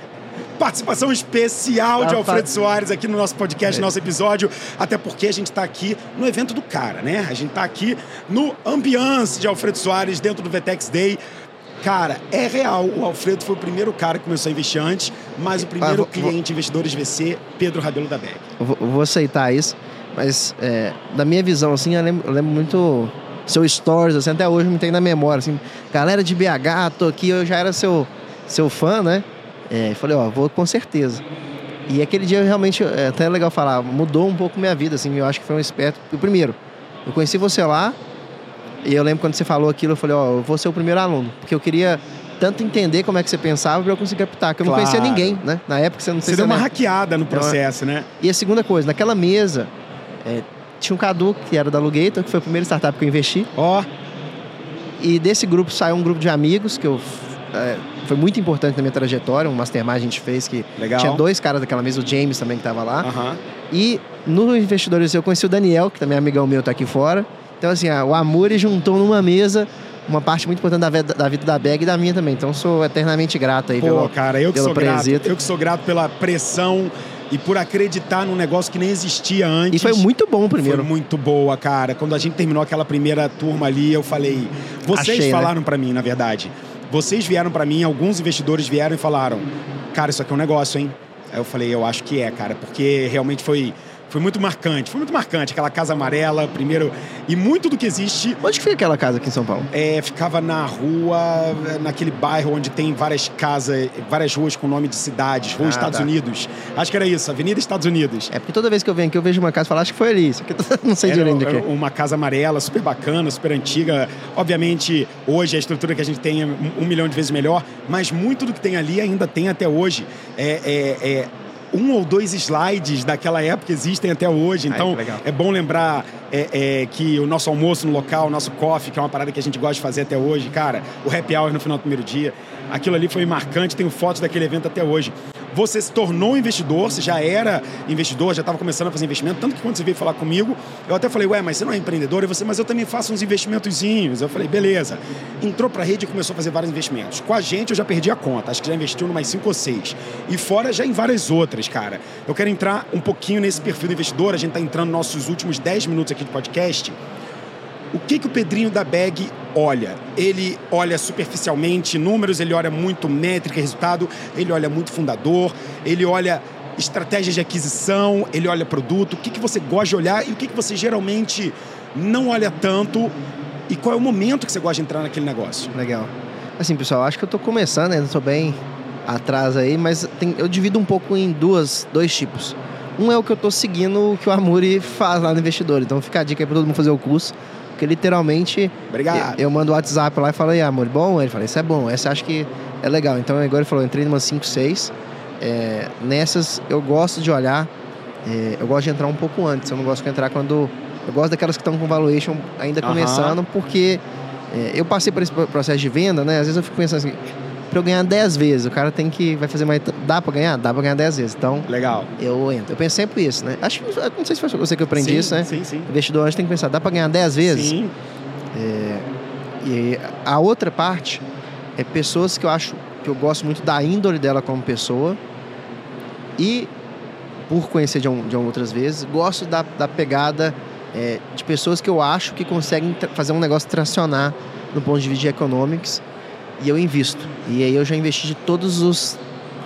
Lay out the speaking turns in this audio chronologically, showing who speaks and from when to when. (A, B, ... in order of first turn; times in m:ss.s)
0:00.6-0:11.2 A
0:02.0-0:02.5 B
0:11.8-0:18.4 A
0:15.6-0:16.3 B
0:18.6-0:31.2 B
0:31.9-0:38.0 B
0:38.8-0:46.7 B
0:44.6-0:45.4 A
0:46.2-0:48.1 A
0:47.3-0:47.6 B
0:48.2-0:49.7 B
0:50.2-0:53.5 B
0:53.6-0:53.9 A
0:55.0-1:03.1 B
1:00.8-1:01.2 A
1:03.0-1:03.4 A
1:03.7-1:15.3 B
1:13.8-1:20.1 A
1:19.7-1:20.9 B
1:20.6-1:38.4 A
1:24.9-1:25.5 B
1:38.4-1:39.7 B
1:39.7-1:48.3 A
1:45.6-1:46.1 B
1:48.3-1:51.6 B
1:51.0-2:37.0 A
2:04.7-2:05.2 B
2:37.9-2:53.2 A
2:53.7-2:55.7 A
2:55.7-3:17.7 B
3:08.9-3:09.4 A
3:18.2-3:37.8 B
3:22.8-3:23.4 A
3:31.7-3:32.1 A
3:34.9-3:35.9 A
3:37.4-3:38.0 A
3:38.5-3:39.1 B
3:39.6-3:41.2 B
3:41.8-3:45.2 B
3:46.4-3:46.7 B
3:47.5-3:56.0 B
3:56.6-3:59.2 B